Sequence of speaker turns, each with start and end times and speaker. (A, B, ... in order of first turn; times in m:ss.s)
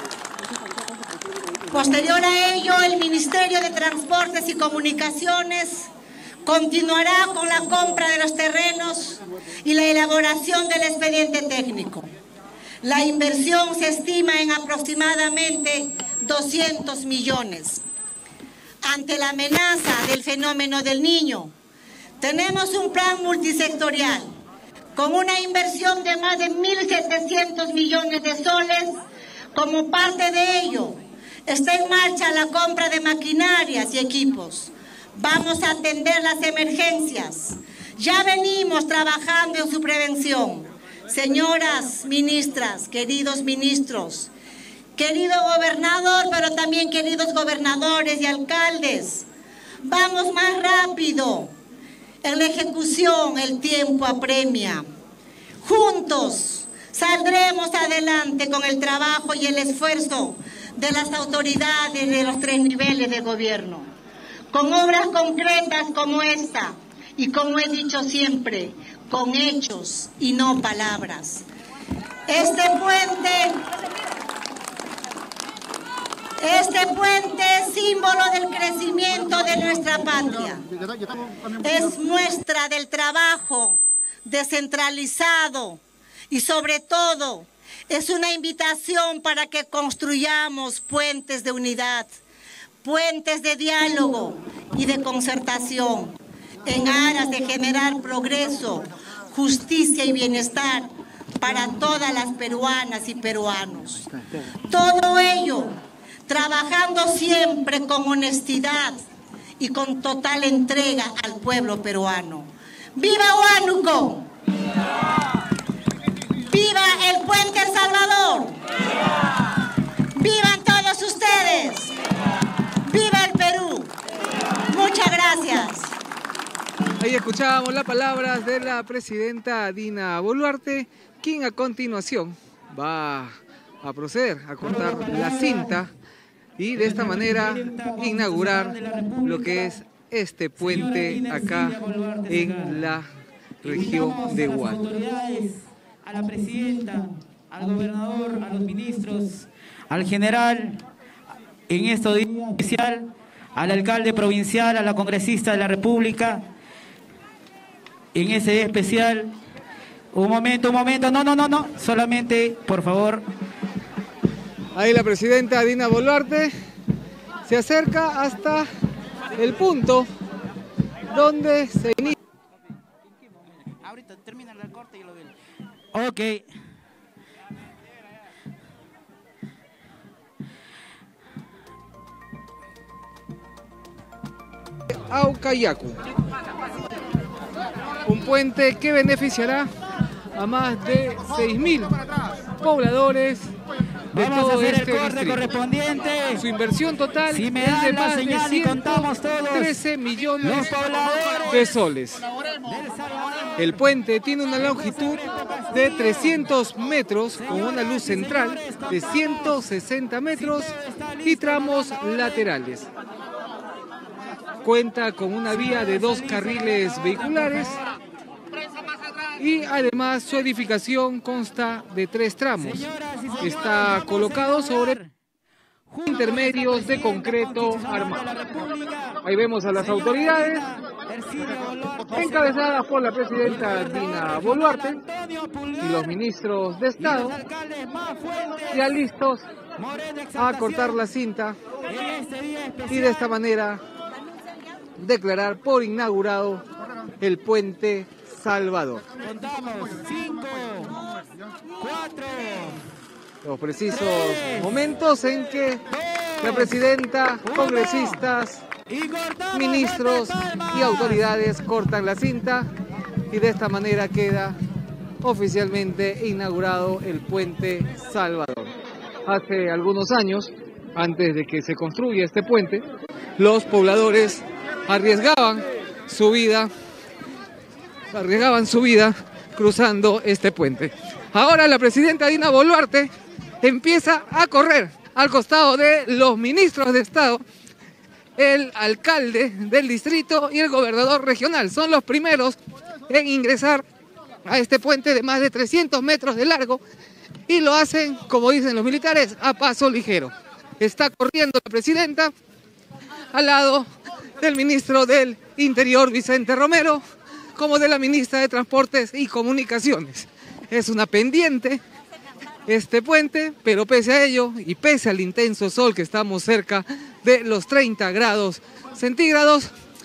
0:01.7-0:05.9 A
0:06.4-0:12.1 A
0:12.8-0:17.8 A
0:18.8-0:21.5 A
0:22.2-0:24.3 A
0:25.0-0:29.0 A
0:29.5-0:44.3 A
0:45.0-0:49.3 A
0:49.8-0:51.5 A
0:52.2-0:54.9 A
0:55.6-1:03.9 A
1:04.5-1:11.4 A
1:12.3-1:13.6 A
1:16.4-1:20.6 A
1:21.6-1:32.1 A
1:32.8-1:44.1 A
1:44.7-1:49.0 A
1:49.6-1:54.3 A
1:56.5-1:58.6 A
2:00.2-2:01.9 A
2:02.8-2:03.9 A
2:04.7-2:05.9 A
2:07.0-2:15.9 B
2:14.6-2:15.8 C
2:16.6-2:23.1 B
2:16.8-2:19.8 C
2:20.6-2:22.8 C
2:23.6-2:30.8 C
2:23.6-2:24.9 B
2:31.7-2:36.5 C
2:38.1-2:39.4 C
2:40.1-2:43.3 C
2:44.8-2:46.5 B
2:47.5-2:48.7 B
2:49.4-2:50.1 B
2:51.1-2:52.2 B
2:53.9-2:55.1 C
2:55.9-2:56.5 C
3:05.1-3:06.0 B
3:08.1-3:09.7 B
3:10.4-3:12.0 B
3:12.6-3:13.5 B
3:14.1-3:16.4 C
3:14.1-3:15.4 B
3:16.4-3:20.8 B
3:17.3-3:19.7 C
3:20.4-3:21.8 C
3:21.5-3:22.2 B
3:22.6-3:23.6 C
3:23.6-3:32.9 B
3:24.6-3:26.5 C
3:27.3-3:29.6 C
3:30.4-3:31.9 C
3:34.6-3:37.8 B
3:35.5-3:37.8 C
3:39.4-3:42.9 B
3:42.6-3:45.1 C
3:43.4-3:45.0 B
3:45.9-3:49.2 C
3:46.1-3:48.3 B
3:49.2-3:50.6 B
3:49.7-3:52.7 C
3:52.1-3:55.0 B
3:53.4-3:54.4 C
3:55.0-3:56.1 C
3:55.8-3:57.4 B
3:57.0-3:59.0 C
3:58.7-3:59.4 B
3:59.8-4:01.0 C
4:00.4-4:01.6 B
4:01.9-4:03.2 C
4:02.9-4:03.8 B
4:05.0-4:06.6 B
4:07.2-4:09.1 B
4:09.2-4:11.0 C
4:11.8-4:12.8 C
4:13.4-4:15.8 B
4:13.9-4:14.7 C
4:16.4-4:18.7 B
4:17.5-4:18.1 C
4:18.9-4:21.2 C
4:19.5-4:22.7 B
4:23.3-4:24.6 B
4:25.2-4:28.7 B
4:29.3-4:32.8 B
4:33.4-4:36.7 B
4:38.1-4:43.1 B
4:43.6-4:47.4 B
4:48.4-4:52.6 B
4:53.1-4:53.8 B
4:54.5-4:56.8 B
4:57.5-5:02.3 B
5:03.3-5:03.9 B
5:04.4-5:07.0 B
5:07.6-5:11.8 B
5:12.7-5:19.7 B